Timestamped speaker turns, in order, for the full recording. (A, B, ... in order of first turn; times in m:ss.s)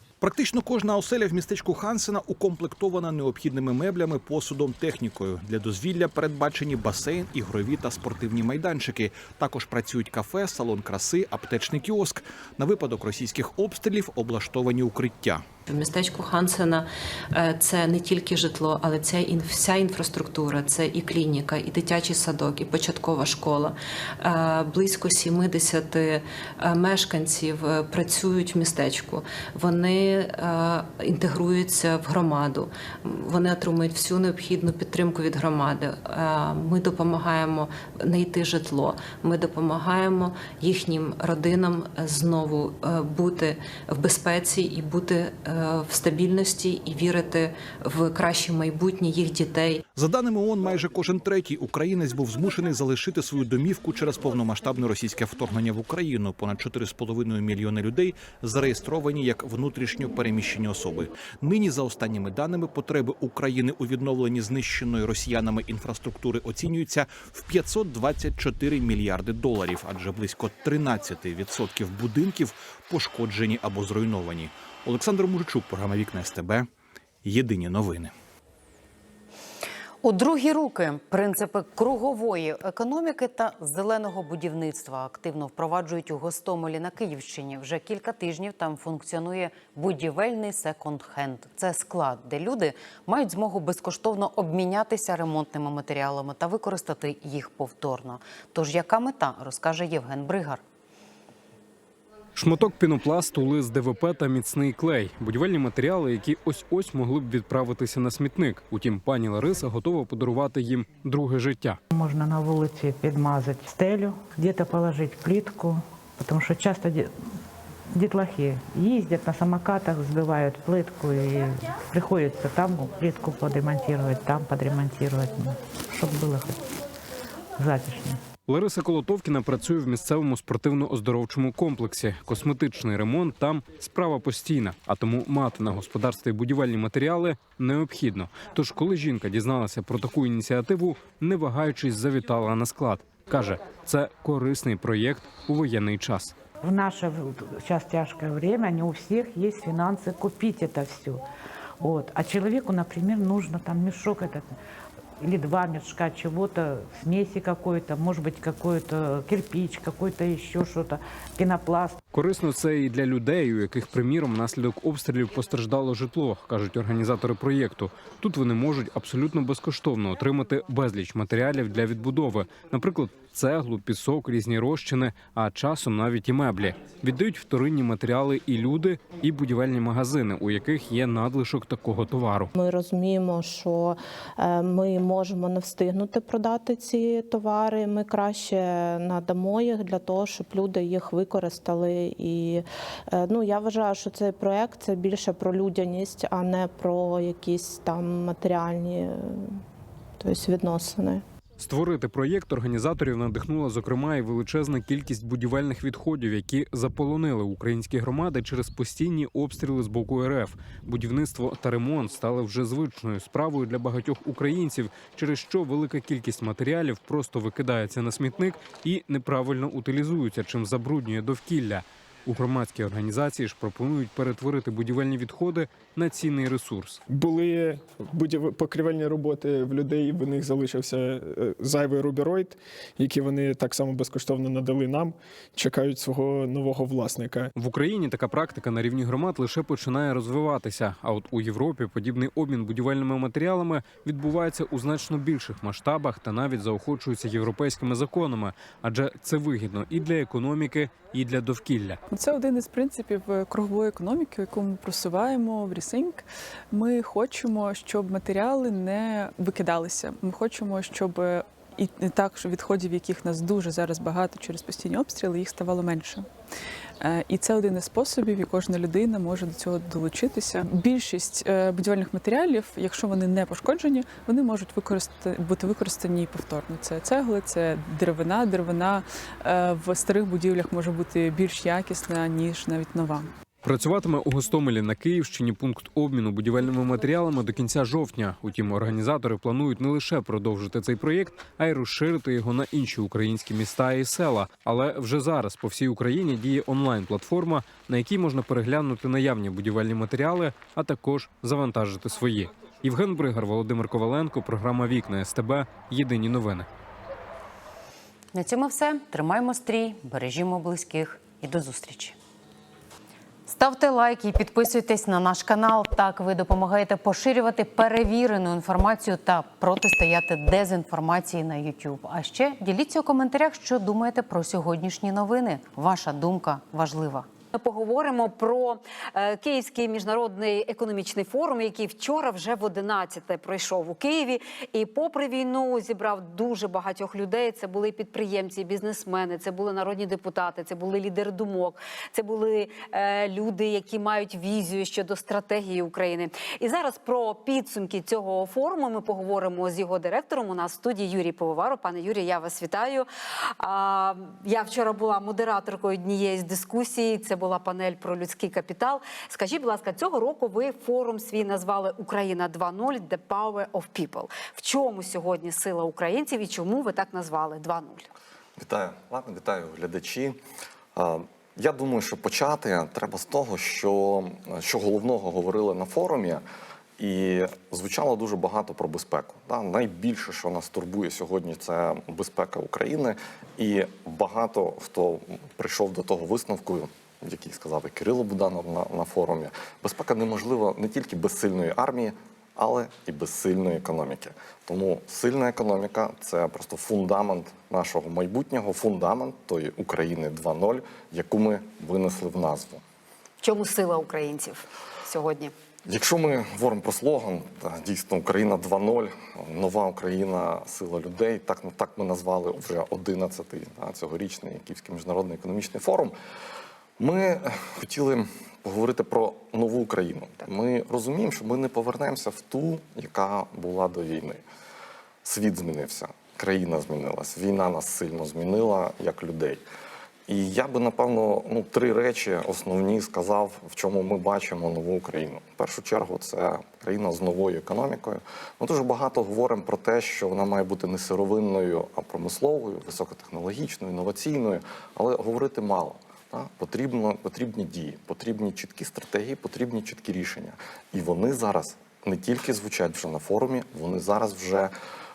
0:00.2-0:15.4 A
0:15.6-0:49.8 B
0:49.9-1:16.7 A
1:17.2-1:18.1 A
1:20.0-1:40.6 C
1:42.4-1:51.8 D
1:51.9-1:57.1 E
1:57.9-2:06.6 E
2:07.6-2:08.2 E
2:08.4-2:26.3 D
2:26.6-2:31.2 E
2:31.8-2:34.5 E
2:35.2-2:42.0 E
2:42.1-3:02.5 D
3:02.5-3:19.6 F
3:20.2-3:21.2 F
3:21.6-3:47.0 D
3:47.1-3:57.5 G
3:57.6-4:12.0 D
4:12.1-4:26.3 H
4:27.0-4:43.3 H
4:43.6-5:06.7 D
5:08.3-5:12.2 C
5:13.5-5:27.3 C
5:27.5-5:53.1 I
5:53.6-6:08.1 I
6:08.6-6:10.4 J
6:10.9-6:16.4 J
6:17.0-6:42.8 J
6:43.4-6:45.5 I
6:45.8-6:56.1 J
6:57.0-7:04.4 J
7:05.2-7:09.6 J
7:10.3-7:34.7 J